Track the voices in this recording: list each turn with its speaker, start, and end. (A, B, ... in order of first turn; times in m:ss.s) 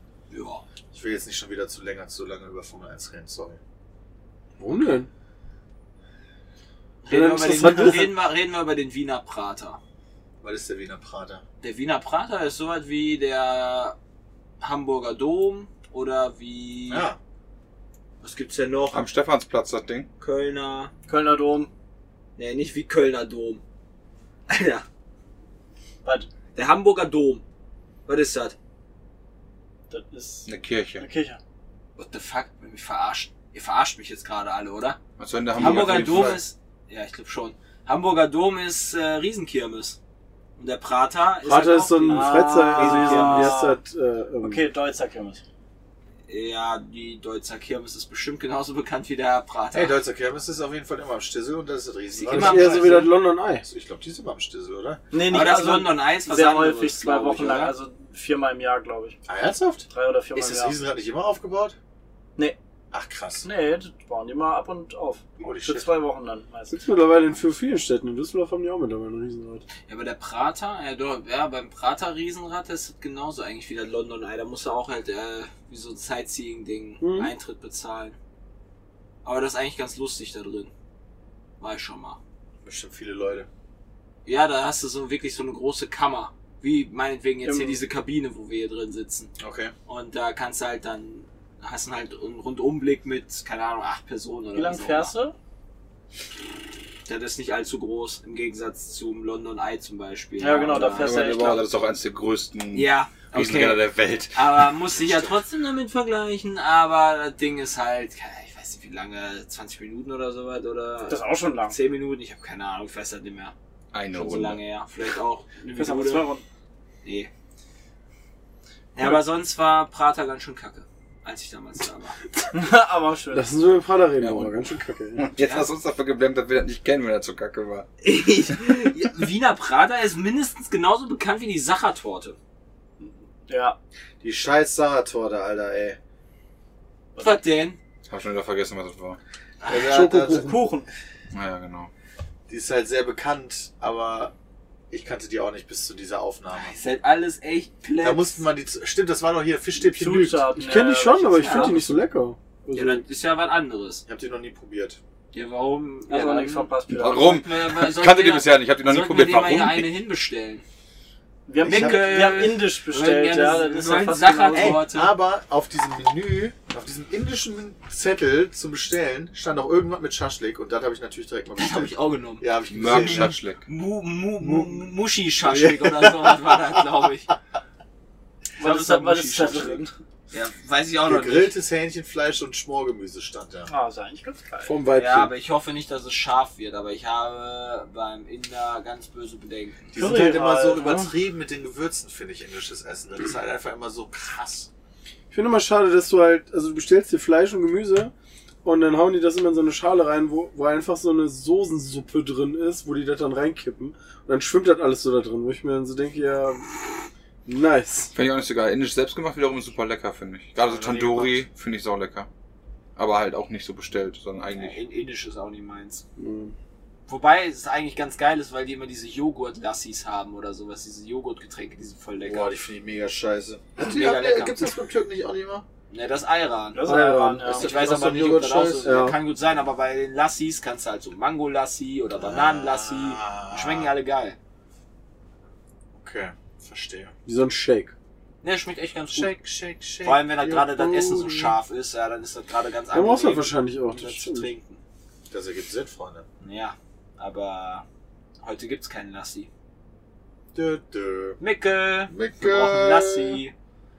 0:00.3-0:00.6 A
0:00.9-0:03.6 B
0:04.6-0:05.1 C
0:07.0-0:09.8 A
0:07.1-0:08.1 C
0:10.4-0:11.4 B
0:11.6-0:14.0 A
0:14.6-0:17.1 A
0:16.9-0:17.2 B
0:18.2-0:19.0 A
0:18.9-0:20.1 D
0:20.2-0:20.9 A
0:21.1-0:21.7 E
0:22.4-0:23.6 A
0:24.5-0:24.8 A
0:26.6-0:27.4 A
0:28.1-0:28.6 A
0:29.9-0:31.4 E
0:30.5-0:31.1 D
0:32.0-0:35.0 A
0:35.2-0:36.4 D
0:35.6-0:40.0 A
0:35.6-0:36.4 B
0:40.6-0:43.7 A
0:41.4-0:44.7 C
0:42.1-0:43.8 E
0:44.4-0:45.4 E
0:46.3-0:50.0 A
0:49.7-0:53.1 B
0:52.1-0:53.1 A
0:52.3-0:53.6 C
0:53.6-0:55.0 B
0:55.1-0:59.2 E
0:55.2-0:57.8 A
0:59.3-1:01.8 B
0:59.9-1:00.8 E
1:02.9-1:03.5 B
1:03.4-1:06.8 E
1:05.4-1:06.0 B
1:06.7-1:09.6 C
1:09.9-1:18.2 A
1:17.0-1:17.3 C
1:19.2-1:20.7 A
1:21.6-1:22.2 A
1:22.6-1:23.5 B
1:24.3-1:29.3 A
1:27.4-1:27.8 E
1:29.4-1:29.7 B
1:29.9-1:35.1 A
1:34.5-1:35.4 E
1:37.1-1:41.6 A
1:40.4-1:41.7 E
1:40.8-1:44.7 D
1:42.7-1:53.5 A
1:45.0-1:45.3 B
1:51.1-1:51.8 E
1:53.9-1:54.6 D
1:54.1-1:56.3 A
1:55.7-1:56.4 E
1:57.0-1:57.3 A
1:59.0-2:02.2 A
2:02.5-2:03.5 E
2:03.3-2:05.2 C
2:04.2-2:04.5 D
2:05.2-2:07.9 D
2:05.4-2:05.7 A
2:08.0-2:12.4 A
2:13.0-2:13.8 E
2:14.2-2:16.0 B
2:17.2-2:17.8 A
2:18.1-2:19.2 D
2:19.6-2:19.9 A
2:19.7-2:20.7 B
2:19.9-2:20.6 C
2:20.3-2:20.9 E
2:21.3-2:21.9 D
2:22.5-2:24.4 B
2:24.9-2:26.7 B
2:26.6-2:28.5 A
2:28.0-2:30.6 B
2:29.8-2:31.9 E
2:30.6-2:33.0 C
2:31.4-2:31.8 A
2:32.7-2:34.0 A
2:34.1-2:35.0 B
2:35.3-2:40.6 A
2:36.1-2:37.4 E
2:36.9-2:39.9 D
2:41.5-2:44.9 E
2:41.6-2:45.1 A
2:41.6-2:42.5 B
2:44.5-2:53.4 B
2:51.6-2:57.3 A
2:52.7-2:53.6 D
2:54.4-2:54.9 B
2:55.4-2:56.6 B
2:58.6-3:00.0 E
2:58.6-3:01.5 A
3:01.1-3:03.7 B
3:03.7-3:04.8 E
3:04.6-3:05.3 C
3:04.9-3:09.9 A
3:09.9-3:14.7 B
3:09.9-3:11.1 E
3:15.3-3:18.1 C
3:18.6-3:28.1 C
3:28.1-3:32.3 D
3:30.6-3:31.4 B
3:33.0-3:34.8 D
3:34.5-3:36.0 A
3:36.2-3:36.5 C
3:37.1-3:42.5 A
3:42.2-3:45.6 B
3:43.9-3:44.6 A
3:45.9-3:54.4 A
3:46.7-3:47.7 E
3:46.9-3:47.6 C
3:47.4-3:49.0 B
3:48.8-3:49.2 C
3:52.2-3:53.9 B
3:55.9-3:57.1 B
3:57.3-3:57.9 C
3:58.4-3:59.4 A
3:59.1-4:00.7 B
4:00.0-4:04.8 A
4:00.8-4:01.5 C
4:02.9-4:04.5 C
4:05.3-4:06.3 B
4:06.4-4:07.8 A
4:08.4-4:09.5 A
4:10.6-4:11.4 B
4:11.4-4:13.5 A
4:12.1-4:13.4 B